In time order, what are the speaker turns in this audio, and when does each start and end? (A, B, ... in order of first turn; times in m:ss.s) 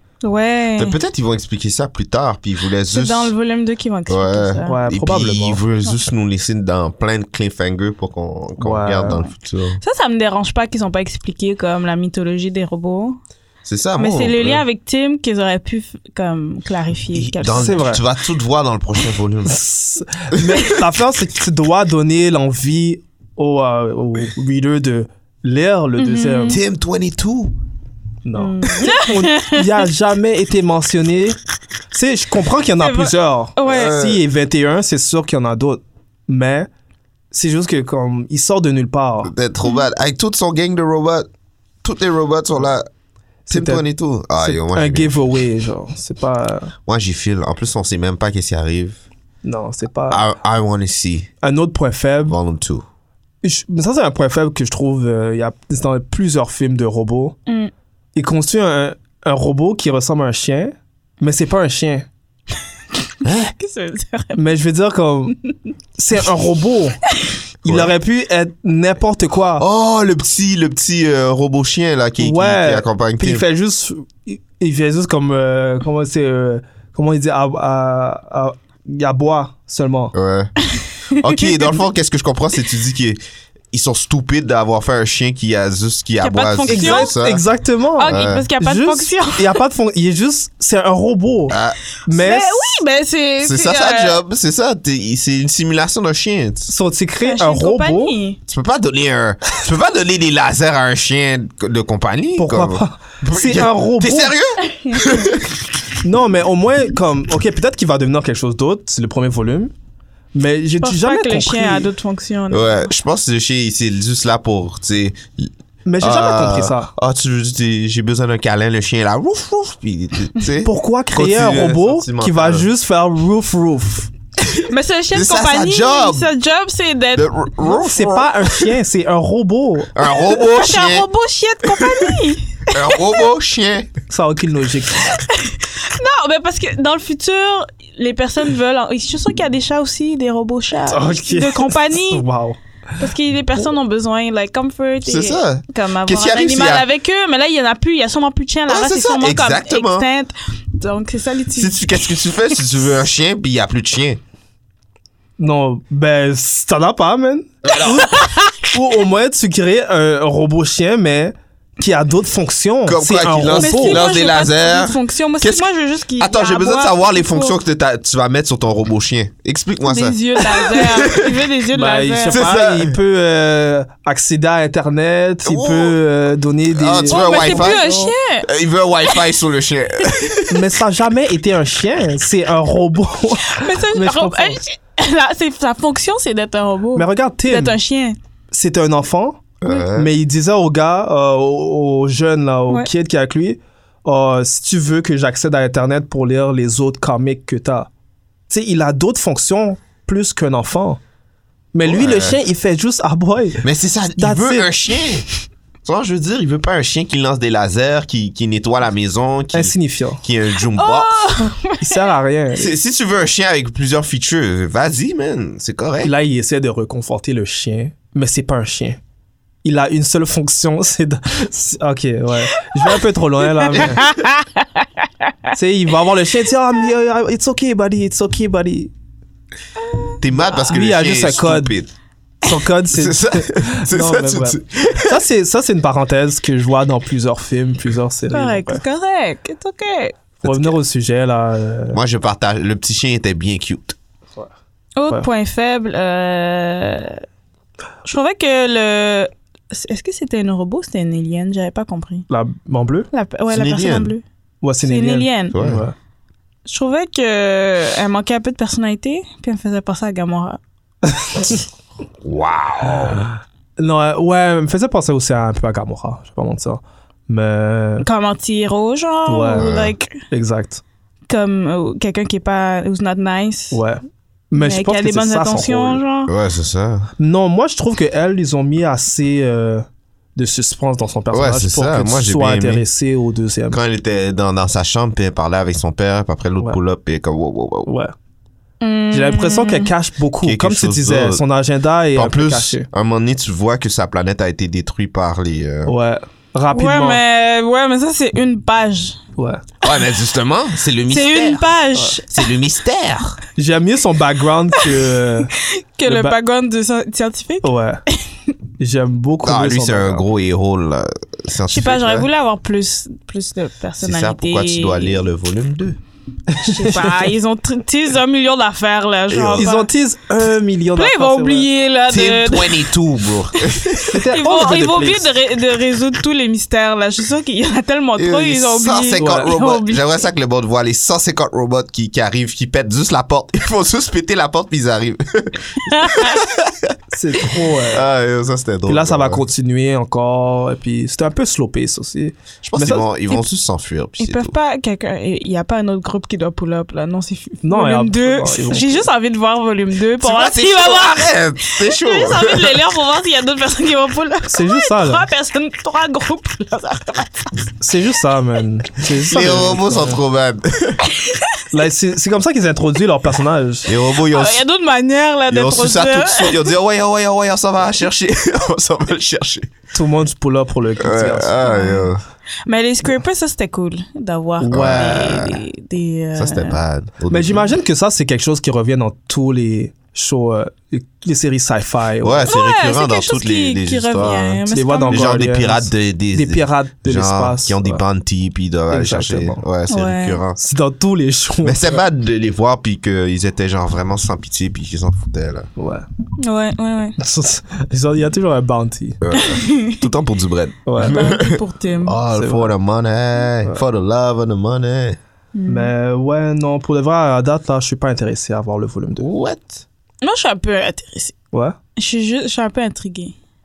0:00.2-0:01.0 A
0:00.8-0:03.3 B
0:02.9-0:04.8 A
0:04.1-0:09.8 B
0:04.6-0:05.6 C
0:08.6-0:09.2 C
0:09.8-0:13.2 A
0:13.6-0:14.6 B
0:14.0-0:17.8 A
0:17.1-0:19.6 B
0:17.5-0:18.0 C
0:19.5-0:26.6 C
0:20.3-0:20.7 B
0:26.0-0:26.6 A
0:26.5-0:27.5 B
0:28.2-0:31.4 C
0:28.4-0:29.8 A
0:31.9-0:36.7 C
0:32.8-0:34.0 A
0:33.6-0:34.2 B
0:37.3-0:39.3 C
0:39.2-0:41.3 B
0:41.8-0:42.9 B
0:43.5-0:43.8 C
0:43.5-0:45.2 B
0:44.4-0:46.7 C
0:46.8-0:49.0 B
0:49.4-0:50.2 C
0:50.1-0:51.3 B
0:51.4-0:52.4 C
0:52.3-0:52.8 B
0:53.4-0:57.4 C
0:58.1-1:02.1 C
1:03.2-1:03.5 B
1:03.6-1:04.5 A
1:04.3-1:05.4 C
1:06.0-1:07.0 C
1:07.6-1:09.6 C
1:07.6-1:07.9 B
1:09.6-1:13.4 B
1:12.2-1:20.1 C
1:20.1-1:20.6 B
1:21.1-1:23.2 B
1:21.2-1:21.7 A
1:23.7-1:27.4 B
1:26.2-1:27.1 A
1:26.7-1:32.7 C
1:28.0-1:29.6 A
1:28.1-1:28.5 B
1:31.5-1:31.8 B
1:32.1-1:34.2 A
1:33.4-1:36.7 B
1:36.7-1:38.1 C
1:37.2-1:38.4 A
1:38.5-1:45.6 B
1:42.4-1:44.3 C
1:44.7-1:45.2 A
1:46.0-1:49.7 C
1:50.3-1:51.9 C
1:50.8-1:52.9 A
1:52.5-2:02.7 B
1:55.8-1:56.9 C
2:00.6-2:04.1 C
2:04.6-2:07.3 A
2:05.1-2:06.3 B
2:07.1-2:08.5 B
2:07.6-2:09.9 C
2:09.9-2:11.1 B
2:10.2-2:13.3 A
2:11.7-2:12.1 B
2:12.7-2:13.9 B
2:14.1-2:15.1 C
2:15.0-2:22.2 A
2:20.9-2:23.0 C
2:23.0-2:32.0 A
2:25.0-2:26.9 B
2:28.7-2:30.1 B
2:31.6-2:34.2 B
2:35.4-2:44.1 C
2:37.6-2:38.2 B
2:37.8-2:38.4 A
2:42.8-2:45.6 B
2:43.5-2:47.5 A
2:46.2-2:51.3 B
2:49.8-2:52.5 A
2:51.7-2:58.0 C
2:52.3-2:53.0 B
2:55.4-2:56.0 B
2:56.7-3:00.7 B
2:57.1-2:58.5 A
3:00.5-3:04.6 C
3:03.4-3:08.2 A
3:06.9-3:07.8 C
3:08.5-3:17.9 C
3:09.6-3:10.1 B
3:18.5-3:21.0 C
3:21.7-3:23.6 C
3:21.8-3:22.4 B
3:23.6-3:25.2 B
3:24.2-3:24.7 C
3:25.8-3:31.3 B
3:29.5-3:30.2 C
3:30.7-3:32.0 A
3:31.8-3:32.7 C
3:32.5-3:36.1 B
3:36.0-3:39.0 C
3:39.6-3:44.1 C
3:43.7-3:44.5 A
3:45.5-3:48.9 C
3:50.2-3:51.9 B
3:50.6-3:51.8 C
3:52.4-3:58.8 C
3:52.9-3:55.2 B
3:58.3-4:00.2 A
4:00.4-4:00.7 B
4:00.4-4:02.0 C
4:01.9-4:04.0 B
4:05.0-4:07.2 A
4:08.0-4:12.2 A
4:12.3-4:13.1 C
4:13.1-4:14.2 A
4:13.5-4:14.2 B
4:14.6-4:15.9 C
4:14.8-4:15.6 A
4:15.5-4:15.8 B
4:16.6-4:20.6 A
4:21.0-4:21.6 C
4:22.2-4:23.3 B
4:23.8-4:28.1 C
4:28.0-4:30.2 A
4:29.3-4:29.7 C
4:29.6-4:29.9 B
4:30.3-4:30.8 C
4:31.3-4:33.8 A
4:33.7-4:36.0 C
4:34.6-4:36.3 A
4:36.3-4:37.1 B
4:37.2-4:43.8 C
4:41.3-4:42.8 B
4:43.7-4:47.9 B
4:47.8-4:48.1 C
4:48.8-4:49.9 A
4:49.1-4:52.9 C
4:50.4-4:51.4 B
4:52.1-4:55.9 B
4:55.8-4:57.2 C
4:56.7-4:59.2 A
4:59.4-4:59.6 C
4:59.8-5:01.6 B
5:01.1-5:02.4 A
5:02.3-5:03.4 B
5:03.6-5:05.5 C
5:05.5-5:08.2 A
5:06.1-5:06.4 C
5:07.6-5:08.0 C
5:08.8-5:10.2 C
5:09.4-5:12.2 B
5:11.7-5:15.2 A
5:14.0-5:16.0 B
5:16.5-5:17.3 C
5:16.6-5:19.9 A
5:19.3-5:19.7 B
5:19.6-5:21.7 C
5:21.0-5:23.0 A
5:22.1-5:24.1 B
5:23.8-5:30.2 A
5:24.0-5:25.3 C
5:28.2-5:36.9 B
5:29.2-5:29.5 C
5:35.9-5:36.4 A
5:37.1-5:38.1 C
5:37.8-5:39.4 B
5:38.9-5:43.1 C
5:42.6-5:44.5 B
5:44.2-5:57.6 A
5:47.6-5:49.0 C
5:50.2-5:52.8 B
5:54.5-5:55.2 C
5:57.8-6:00.2 C
5:59.2-6:01.0 B
6:01.1-6:01.5 A
6:01.7-6:03.9 C
6:03.8-6:04.6 B
6:04.2-6:06.6 A
6:05.5-6:09.7 B
6:09.9-6:11.6 C
6:11.0-6:12.2 B
6:11.6-6:12.1 A
6:12.6-6:16.8 A
6:14.6-6:15.1 C
6:14.7-6:15.6 B
6:16.3-6:17.7 B
6:17.3-6:22.5 C
6:22.2-6:30.6 B
6:22.5-6:25.2 A
6:24.7-6:28.0 C
6:28.9-6:29.6 C
6:29.9-6:30.4 A
6:30.6-6:32.0 C
6:31.6-6:35.7 B
6:35.8-6:36.0 C
6:36.4-6:37.2 A
6:37.2-6:39.2 C
6:39.2-6:45.2 B
6:39.3-6:40.0 A
6:40.8-6:41.2 C
6:41.0-6:42.2 A
6:42.3-6:42.7 C
6:45.5-6:45.9 A
6:45.7-6:49.3 C
6:49.2-6:49.8 B
6:50.2-6:51.3 A
6:51.5-6:51.8 C
6:52.0-6:53.3 A